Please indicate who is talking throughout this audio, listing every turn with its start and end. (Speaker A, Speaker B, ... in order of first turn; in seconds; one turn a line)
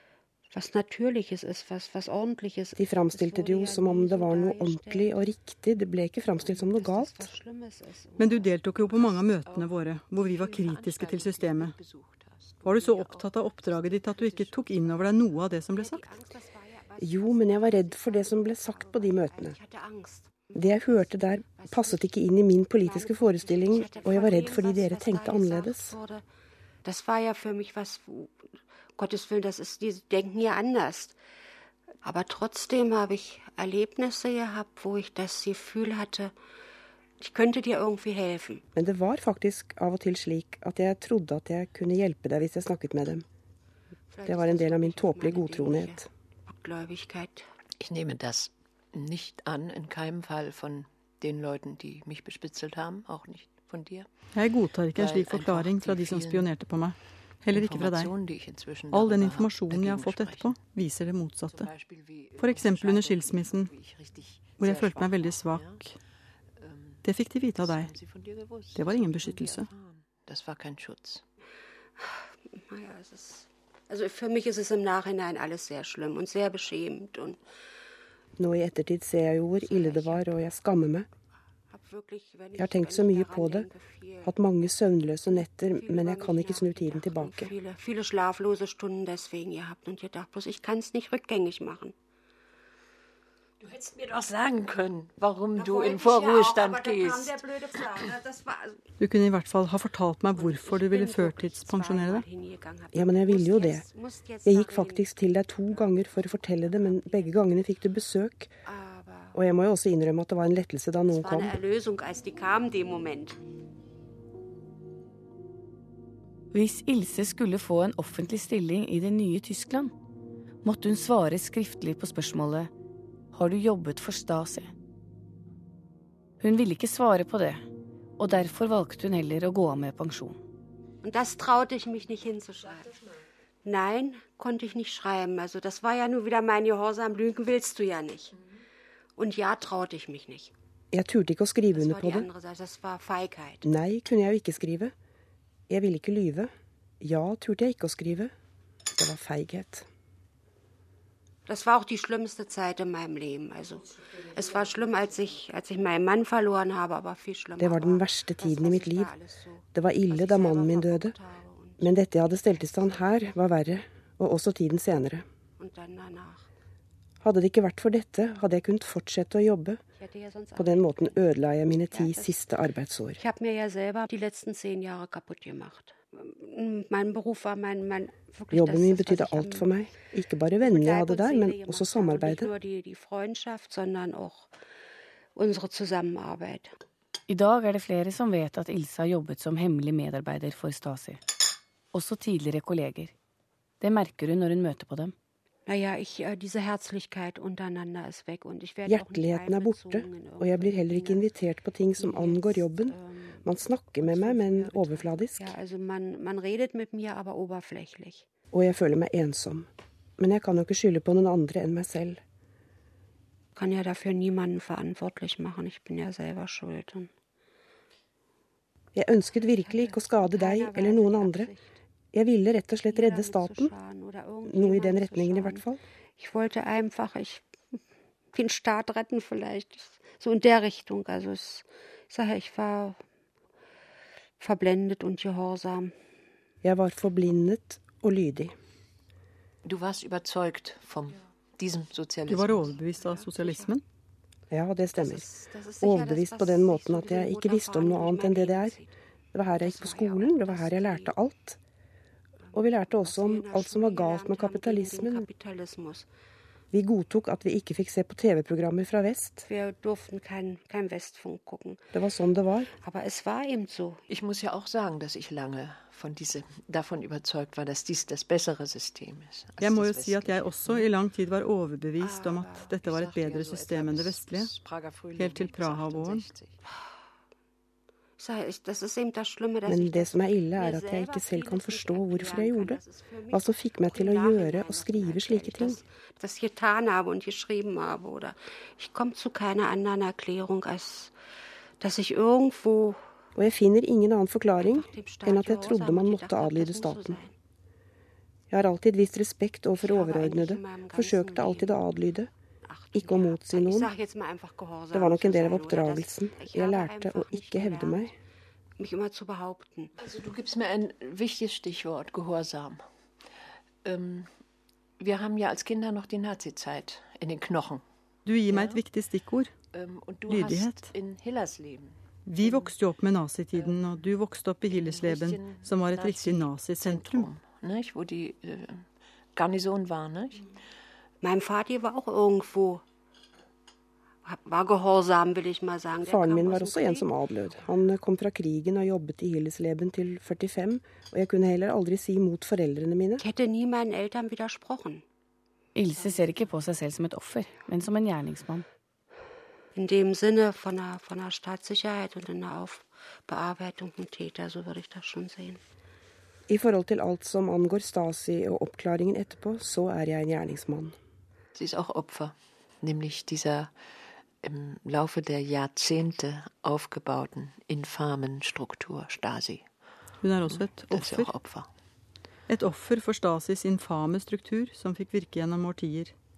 Speaker A: 0.5-5.2
Speaker B: 2.8-7.3
Speaker A: 6.4-8.5
Speaker C: 8.2-11.8
Speaker D: 8.9-15.2
Speaker C: 12.6-16.2
Speaker A: 15.7-22.1
Speaker B: 17.0-19.6
Speaker B: 20.6-25.9
Speaker A: 22.8-26.2
Speaker A: 26.8-28.4
Speaker A: 28.9-31.2
Speaker A: 32.0-36.3
Speaker A: 37.2-38.6
Speaker B: 38.7-43.2
Speaker A: 44.1-47.5
Speaker B: 44.2-46.1
Speaker D: 47.8-54.1
Speaker C: 54.3-58.1
Speaker D: 54.9-56.5
Speaker D: 57.5-60.5
Speaker C: 58.9-61.7
Speaker D: 61.5-65.8
Speaker C: 62.4-63.7
Speaker C: 64.6-66.0
Speaker D: 66.6-71.2
Speaker C: 67.0-67.9
Speaker C: 68.8-69.7
Speaker A: 72.0-77.4
Speaker B: 78.4-81.0
Speaker A: 79.6-80.5
Speaker A: 81.7-84.4
Speaker B: 82.6-83.7
Speaker B: 84.2-87.5
Speaker A: 85.3-91.9
Speaker D: 93.6-97.8
Speaker A: 95.5-98.8
Speaker C: 99.0-102.2
Speaker A: 100.3-105.1
Speaker B: 102.9-103.8
Speaker B: 104.5-108.5
Speaker A: 105.6-107.4
Speaker A: 108.7-109.4
Speaker B: 109.3-111.6
Speaker A: 111.0-113.4
Speaker E: 116.5-119.9
Speaker E: 120.6-122.7
Speaker E: 123.3-124.7
Speaker E: 126.4-127.6
Speaker E: 128.2-130.4
Speaker A: 131.0-133.0
Speaker A: 133.6-138.4
Speaker A: 139.2-140.5
Speaker B: 140.9-142.3
Speaker A: 141.7-143.7
Speaker B: 143.6-144.9
Speaker B: 145.7-148.3
Speaker B: 148.9-149.9
Speaker A: 151.5-161.8
Speaker B: 157.6-159.1
Speaker B: 159.7-161.1
Speaker B: 161.8-165.2
Speaker A: 165.6-166.5
Speaker B: 167.2-169.8
Speaker A: 169.9-172.4
Speaker B: 170.6-173.2
Speaker A: 173.2-179.8
Speaker B: 178.5-182.5
Speaker A: 180.6-184.5
Speaker A: 185.3-186.7
Speaker E: 187.3-191.2
Speaker E: 191.9-193.1
Speaker E: 193.8-195.1
Speaker A: 195.7-201.3
Speaker B: 198.9-205.5
Speaker A: 201.9-208.3
Speaker B: 208.5-212.2
Speaker A: 213.6-217.1
Speaker B: 218.9-221.5
Speaker A: 219.6-221.8
Speaker B: 222.1-223.7
Speaker A: 222.9-225.7
Speaker B: 224.4-225.8
Speaker A: 226.2-227.8
Speaker A: 228.3-233.0
Speaker A: 234.4-235.9
Speaker B: 236.6-238.5
Speaker D: 239.6-242.8
Speaker C: 242.3-243.8
Speaker A: 242.9-243.7
Speaker B: 244.5-245.3
Speaker A: 244.9-248.9
Speaker B: 245.8-248.8
Speaker B: 249.3-251.6
Speaker A: 249.5-251.1
Speaker A: 252.5-256.1
Speaker B: 252.5-255.2
Speaker B: 256.7-259.4
Speaker A: 259.4-261.8
Speaker B: 261.9-262.7
Speaker A: 262.7-264.0
Speaker D: 264.1-270.9
Speaker C: 269.6-274.5
Speaker A: 272.0-272.8
Speaker D: 272.8-276.6
Speaker C: 275.1-276.2
Speaker A: 278.2-291.1
Speaker B: 279.6-285.8
Speaker A: 291.8-293.0
Speaker B: 293.4-297.2
Speaker A: 294.6-297.3
Speaker B: 298.5-302.3
Speaker A: 299.8-301.8
Speaker A: 302.6-308.1
Speaker B: 302.9-303.9
Speaker B: 304.9-308.1
Speaker A: 308.8-309.9
Speaker D: 310.0-312.8
Speaker D: 313.8-314.3
Speaker D: 315.0-317.8
Speaker C: 318.2-319.5
Speaker D: 318.5-318.8
Speaker D: 319.7-322.7
Speaker C: 320.3-320.9
Speaker C: 322.2-327.3
Speaker D: 323.5-324.0
Speaker D: 324.7-330.5
Speaker A: 331.2-332.8
Speaker A: 334.2-337.1
Speaker B: 336.1-343.2
Speaker A: 343.2-345.0
Speaker E: 345.7-348.6
Speaker A: 349.7-355.6
Speaker B: 356.5-361.0
Speaker D: 361.5-363.7
Speaker D: 364.4-369.7
Speaker C: 370.2-371.3
Speaker D: 370.4-371.7
Speaker C: 372.5-376.1